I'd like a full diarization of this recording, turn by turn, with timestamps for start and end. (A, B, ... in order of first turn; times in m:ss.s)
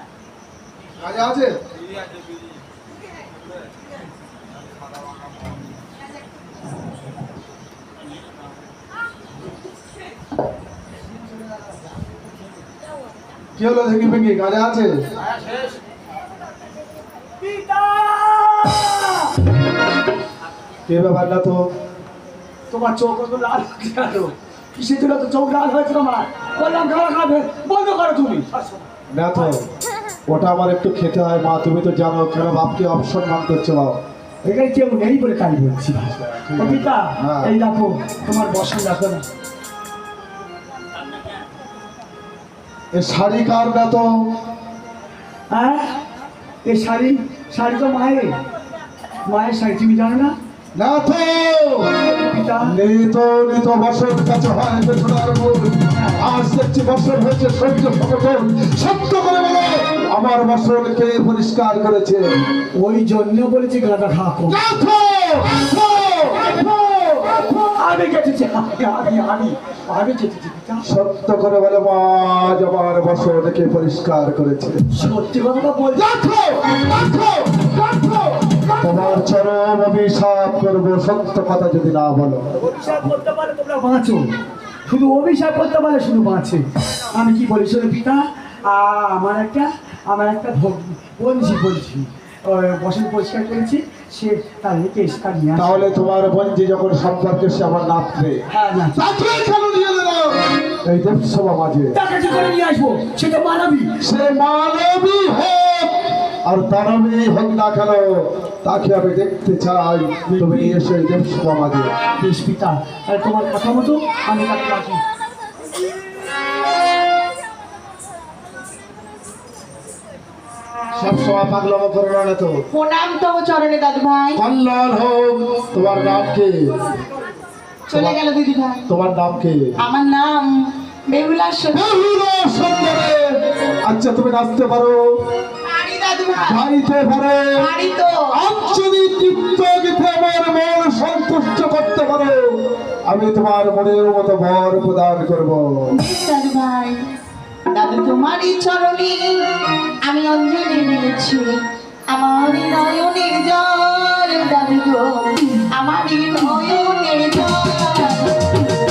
0:01.0-0:01.6 A
0:13.6-0:15.0 A
0:17.4-0:19.4 B
0:20.9-0:21.7 A
0:22.7-0:28.8 B
0:29.1-0:29.7 A
0:30.3-0:34.0 A
0:34.4-0:39.3 B
0:36.2-0:37.6 A
0:42.9-0:44.3 A
0:45.5-0:46.0 B
0:46.6-0:48.4 B
0:49.2-0:50.4 B
0:50.8-0:51.9 A
0:52.1-0:52.7 B
0:52.6-1:02.3 A
0:55.9-0:56.2 B
1:02.7-1:04.6 B
1:04.5-1:07.3 A
1:07.3-1:10.8 B
1:10.8-1:14.9 A
1:14.9-1:16.1 B
1:15.9-1:22.5 A
1:22.6-1:24.3 B
1:24.9-1:35.8 B
1:35.6-1:38.4 A
1:38.5-1:39.0 B
1:39.0-1:42.0 A
1:41.9-1:43.9 B
1:44.0-1:51.9 A
1:50.3-1:50.8 B
1:52.2-1:55.0 B
2:00.9-2:02.7 A
2:02.7-2:04.4 C
2:04.4-2:06.8 A
2:07.9-2:08.9 C
2:07.9-2:08.2 A
2:08.9-2:09.7 A
2:09.8-2:10.5 C
2:11.1-2:11.9 C
2:11.7-2:15.0 A
2:15.6-2:16.7 C
2:16.4-2:17.7 A
2:17.6-2:18.3 C
2:18.3-2:26.0 A
2:25.9-2:27.0 C
2:27.7-2:29.4 C
2:30.0-2:31.6 C
2:32.1-2:38.5 C